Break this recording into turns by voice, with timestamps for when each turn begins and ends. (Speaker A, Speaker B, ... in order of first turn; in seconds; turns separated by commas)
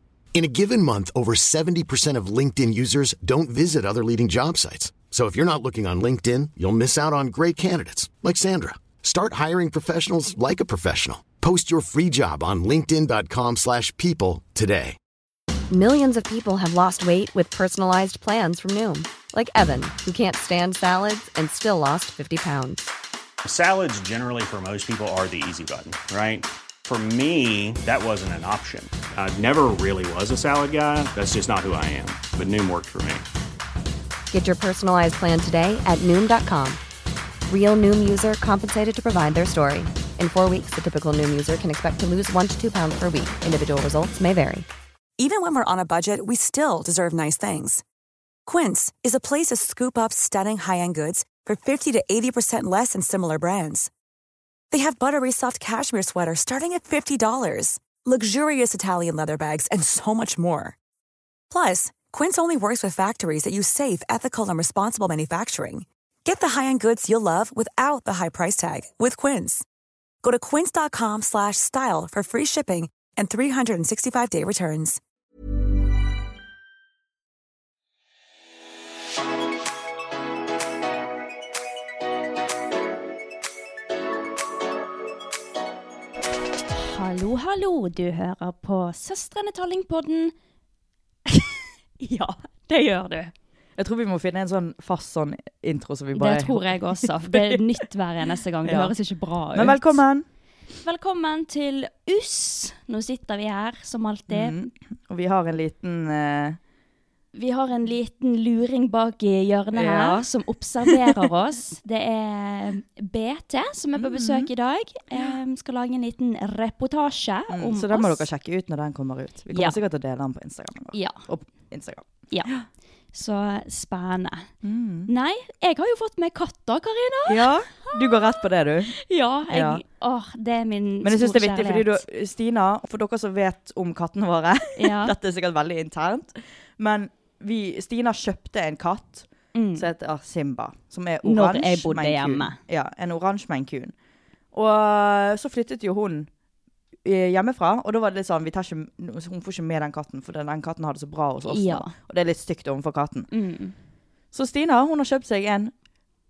Speaker A: 0.3-15.0, Speaker B: 15.7-22.9, Speaker C: 23.4-33.2, Speaker B: 34.3-36.8, Speaker B: 37.5-44.7, Speaker D: 45.2-47.8, Speaker D: 48.5-53.9, Speaker D: 54.7-60.8, Speaker D: 61.5-69.6, Speaker D: 70.2-75.0, Speaker E: 86.8-90.3, Speaker E: 91.3-93.3, Speaker F: 93.8-97.6, Speaker E: 96.1-100.0, Speaker F: 98.6-98.9, Speaker F: 99.5-100.2, Speaker E: 100.8-104.7, Speaker F: 104.3-106.6, Speaker E: 107.3-118.2, Speaker F: 109.7-110.3, Speaker F: 110.8-111.3, Speaker F: 114.0-114.5, Speaker F: 117.5-122.6, Speaker E: 119.5-119.8, Speaker E: 120.9-121.2, Speaker E: 123.1-124.5, Speaker F: 124.6-125.1, Speaker E: 125.1-128.2, Speaker F: 127.3-128.9, Speaker E: 128.9-132.0, Speaker F: 129.5-129.8, Speaker F: 131.0-143.9, Speaker E: 134.8-135.1, Speaker E: 139.5-139.9, Speaker E: 141.2-142.6, Speaker F: 144.5-146.3, Speaker F: 147.0-153.3, Speaker E: 151.4-151.9, Speaker E: 153.3-153.7, Speaker F: 154.3-155.7